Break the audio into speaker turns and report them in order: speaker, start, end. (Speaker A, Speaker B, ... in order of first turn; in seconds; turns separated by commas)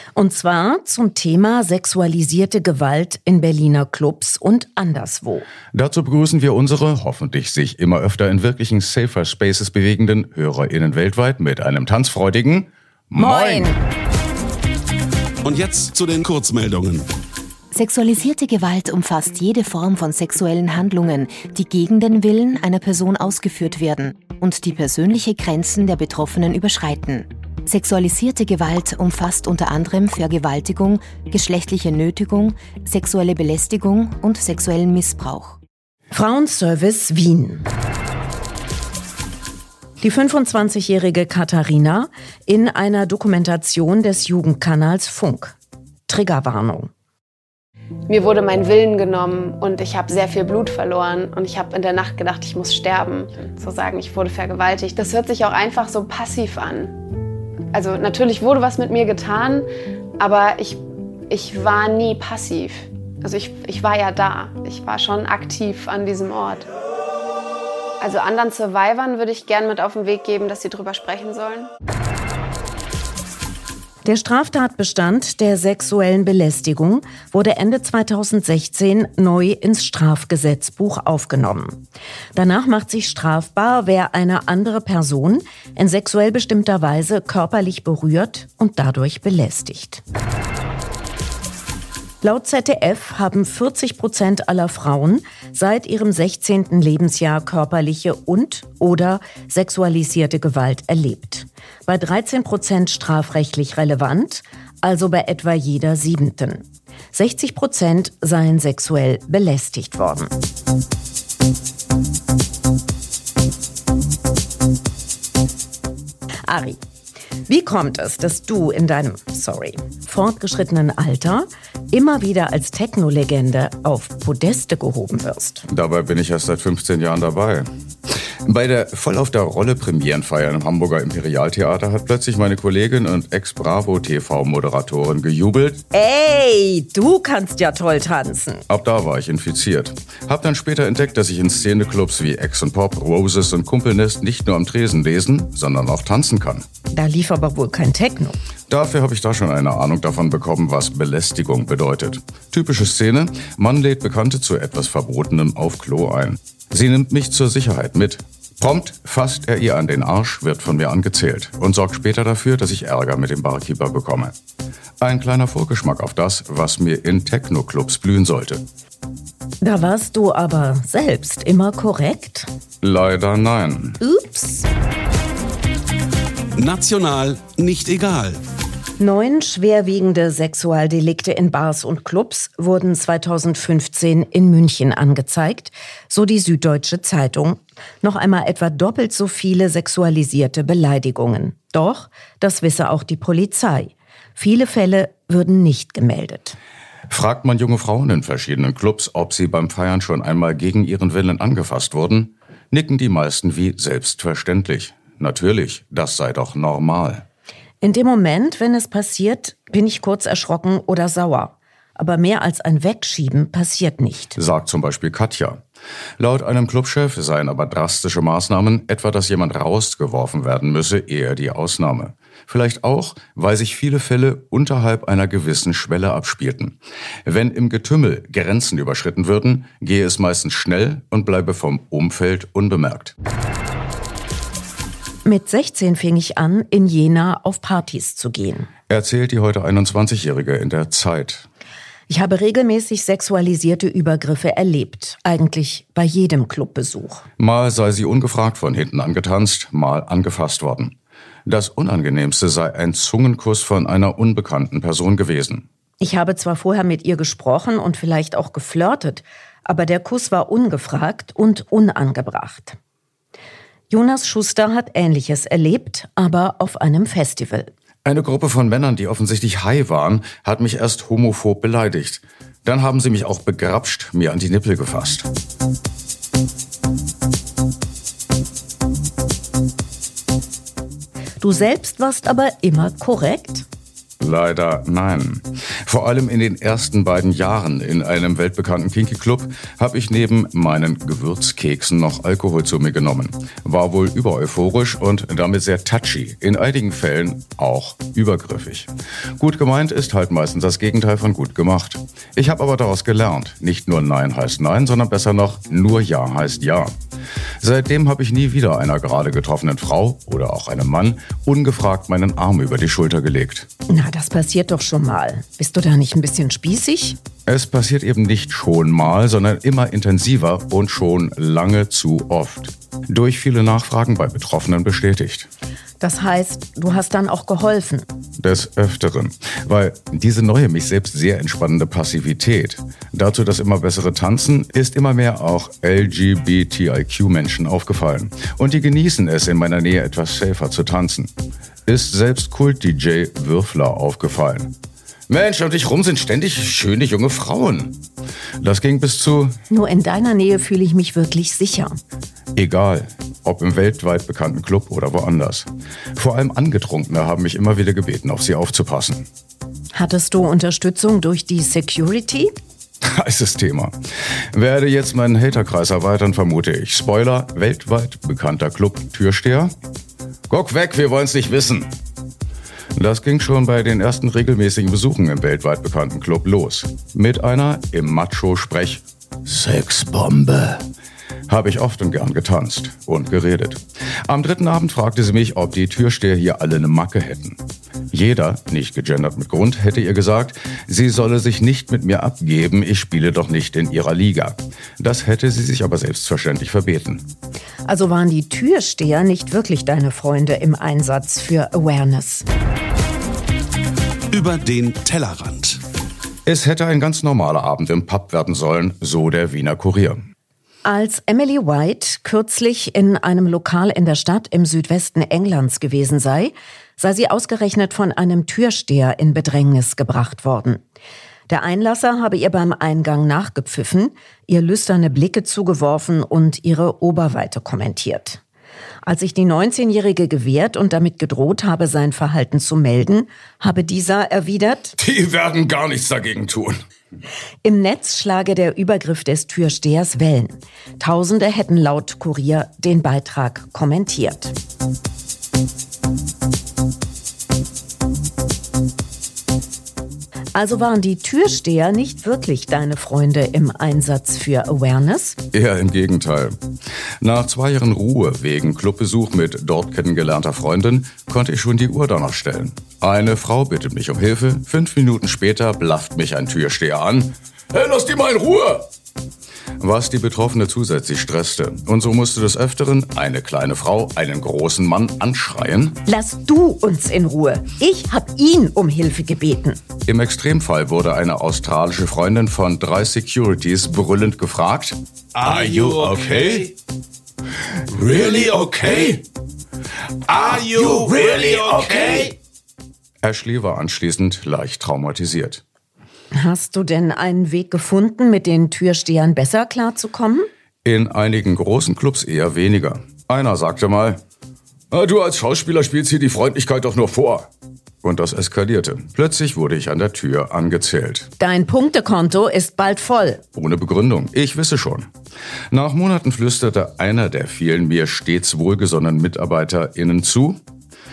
Speaker A: 0.1-5.5, Speaker B: 5.7-13.8, Speaker A: 13.2-13.8, Speaker C: 15.4-17.1, Speaker D: 17.7-35.6, Speaker A: 36.1-37.7, Speaker A: 40.0-45.6, Speaker A: 46.1-46.9, Speaker E: 48.1-57.0, Speaker E: 57.7-59.7, Speaker E: 60.2-66.7, Speaker E: 68.0-71.7, Speaker A: 74.0-81.8, Speaker A: 82.3-90.0, Speaker A: 92.2-110.3, Speaker A: 116.5-116.8, Speaker A: 117.5-125.7, Speaker B: 125.7-127.7, Speaker B: 128.4-135.8, Speaker A: 135.9-138.6, Speaker B: 138.7-146.7, Speaker A: 146.9-148.4, Speaker B: 148.7-164.3, Speaker B: 165.0-168.6, Speaker A: 169.6-172.5, Speaker B: 172.8-174.0, Speaker A: 174.0-174.7, Speaker C: 176.6-178.4, Speaker A: 179.0-196.6, Speaker B: 197.1-207.2, Speaker A: 207.8-214.4, Speaker B: 214.4-215.6, Speaker B: 216.2-233.2, Speaker A: 235.2-238.7, Speaker B: 238.9-241.5, Speaker A: 242.1-247.2, Speaker B: 247.4-250.9, Speaker B: 251.5-255.7, Speaker A: 256.0-262.8, Speaker A: 263.9-267.7, Speaker B: 268.1-275.3, Speaker A: 281.4-283.6, Speaker B: 284.2-307.0, Speaker B: 307.6-313.7, Speaker A: 313.9-317.2, Speaker B: 317.5-325.5, Speaker A: 326.0-328.1, Speaker B: 328.4-341.3, Speaker B: 341.9-344.7, Speaker B: 345.3-348.0, Speaker B: 348.6-349.6, Speaker A: 349.7-352.0, Speaker B: 352.6-359.3, Speaker A: 359.9-362.5, Speaker B: 363.0-363.9, Speaker B: 364.5-369.7, Speaker B: 370.5-371.9, Speaker B: 373.0-380.9, Speaker B: 381.5-397.3, Speaker A: 397.9-402.5, Speaker C: 404.3-405.8, Speaker B: 406.5-410.3, Speaker A: 410.9-420.8, Speaker A: 421.5-428.4, Speaker A: 429.1-435.0, Speaker B: 435.0-436.8, Speaker A: 437.6-444.5, Speaker A: 450.6-455.4, Speaker B: 455.5-456.6, Speaker B: 457.2-468.9, Speaker B: 469.8-476.0, Speaker A: 476.1-479.8, Speaker B: 480.1-486.7, Speaker B: 487.9-489.2, Speaker B: 490.3-492.3, Speaker B: 493.2-495.6, Speaker A: 496.3-500.5, Speaker B: 500.9-504.2, Speaker B: 504.9-507.5, Speaker B: 508.0-511.3, Speaker A: 511.4-513.4, Speaker B: 513.5-515.1, Speaker B: 515.7-520.6